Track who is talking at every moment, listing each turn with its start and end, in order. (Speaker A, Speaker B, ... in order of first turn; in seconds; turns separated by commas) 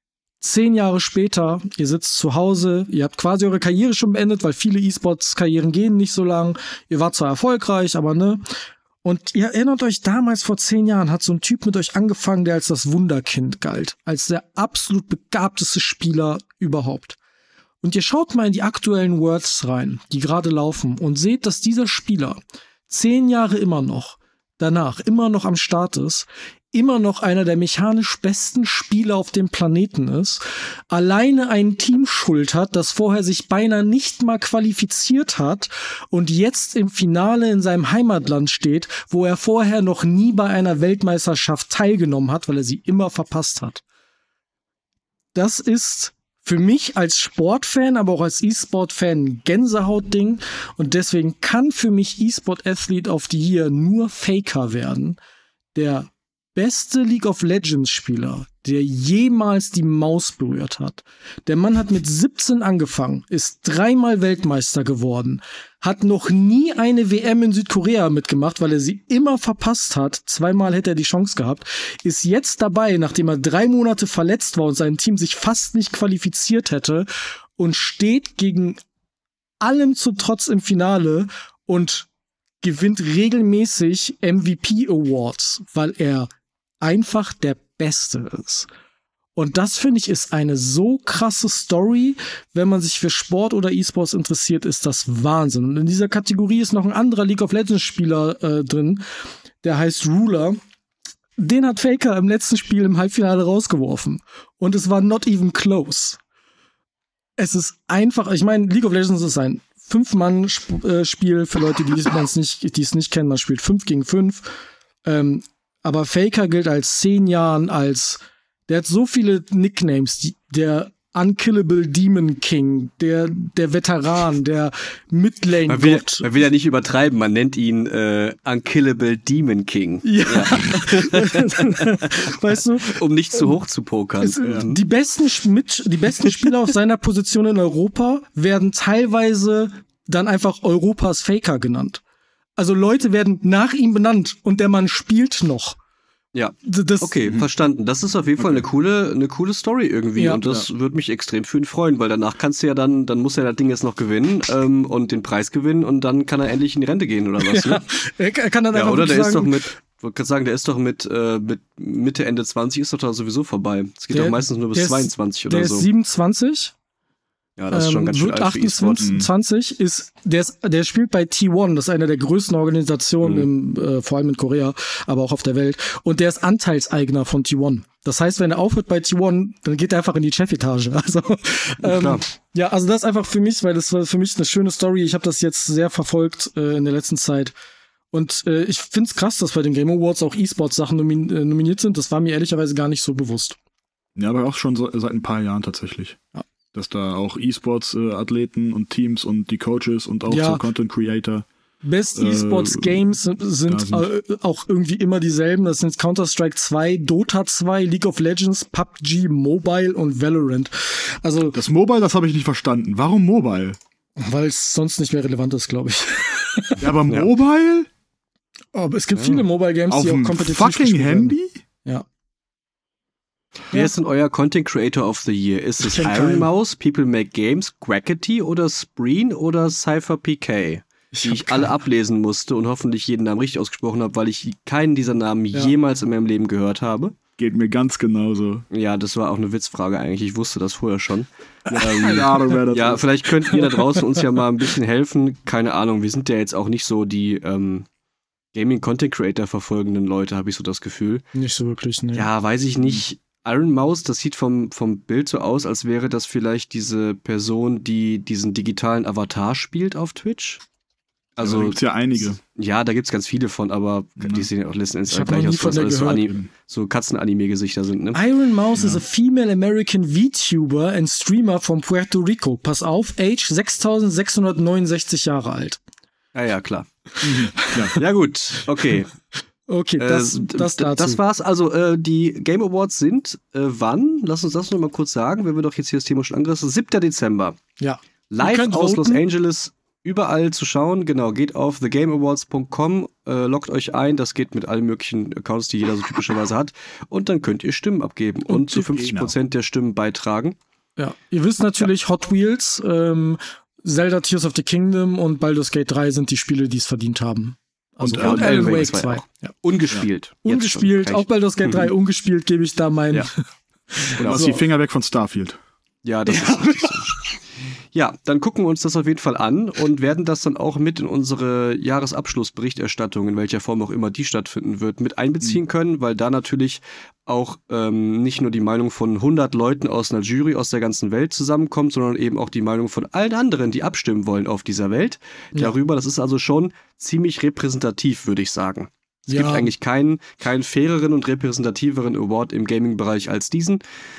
Speaker A: 0.4-8.4, Speaker A: 9.0-17.2, Speaker A: 17.8-43.8, Speaker A: 45.3-55.2, Speaker A: 55.8-77.1, Speaker A: 77.6-78.8, Speaker A: 79.6-82.1, Speaker A: 82.6-86.3, Speaker A: 86.8-88.7, Speaker A: 89.4-99.0, Speaker A: 99.6-100.6, Speaker A: 101.4-106.2, Speaker A: 107.4-126.3, Speaker B: 125.7-134.8, Speaker A: 130.0-133.5, Speaker A: 134.2-142.0, Speaker C: 134.4-134.7, Speaker A: 142.6-145.8, Speaker B: 146.3-157.8, Speaker A: 146.6-147.1, Speaker C: 148.4-148.6, Speaker A: 150.2-150.4, Speaker A: 157.4-159.7, Speaker B: 158.7-165.9, Speaker A: 164.1-166.7, Speaker B: 167.6-169.1, Speaker A: 167.7-187.5, Speaker C: 169.0-169.3, Speaker B: 173.2-173.5, Speaker B: 181.8-182.2, Speaker A: 188.1-193.6, Speaker C: 194.2-196.2, Speaker C: 196.7-201.5, Speaker A: 200.3-200.6, Speaker A: 201.8-211.6, Speaker C: 202.2-203.0, Speaker C: 203.7-204.1, Speaker C: 211.5-213.8, Speaker A: 214.2-216.8, Speaker C: 216.8-217.9, Speaker A: 218.7-222.1, Speaker B: 219.2-219.4, Speaker C: 219.9-221.6, Speaker B: 223.7-237.1, Speaker A: 225.8-226.5, Speaker A: 231.1-231.7, Speaker C: 237.4-238.7, Speaker B: 238.7-247.9, Speaker C: 241.7-243.6, Speaker B: 248.5-251.2, Speaker A: 251.3-252.3, Speaker B: 252.1-260.6, Speaker B: 261.4-261.8, Speaker C: 261.4-262.4, Speaker B: 262.4-268.2, Speaker C: 264.2-264.5, Speaker A: 265.1-266.3, Speaker C: 266.2-266.5, Speaker A: 268.1-275.8, Speaker C: 268.8-269.0, Speaker B: 276.3-276.9, Speaker A: 277.2-278.0, Speaker C: 277.2-278.0, Speaker B: 277.9-279.1, Speaker A: 279.7-281.2, Speaker B: 280.0-287.6, Speaker A: 287.8-289.2, Speaker B: 288.3-300.6, Speaker A: 298.5-298.8, Speaker C: 298.8-299.3, Speaker A: 301.0-309.5, Speaker C: 308.0-308.9, Speaker B: 308.1-311.9, Speaker A: 310.4-313.4, Speaker A: 314.0-314.6, Speaker B: 314.2-314.4, Speaker C: 314.2-315.6, Speaker B: 316.0-317.2, Speaker A: 316.3-317.4, Speaker B: 317.9-343.8, Speaker A: 339.3-339.7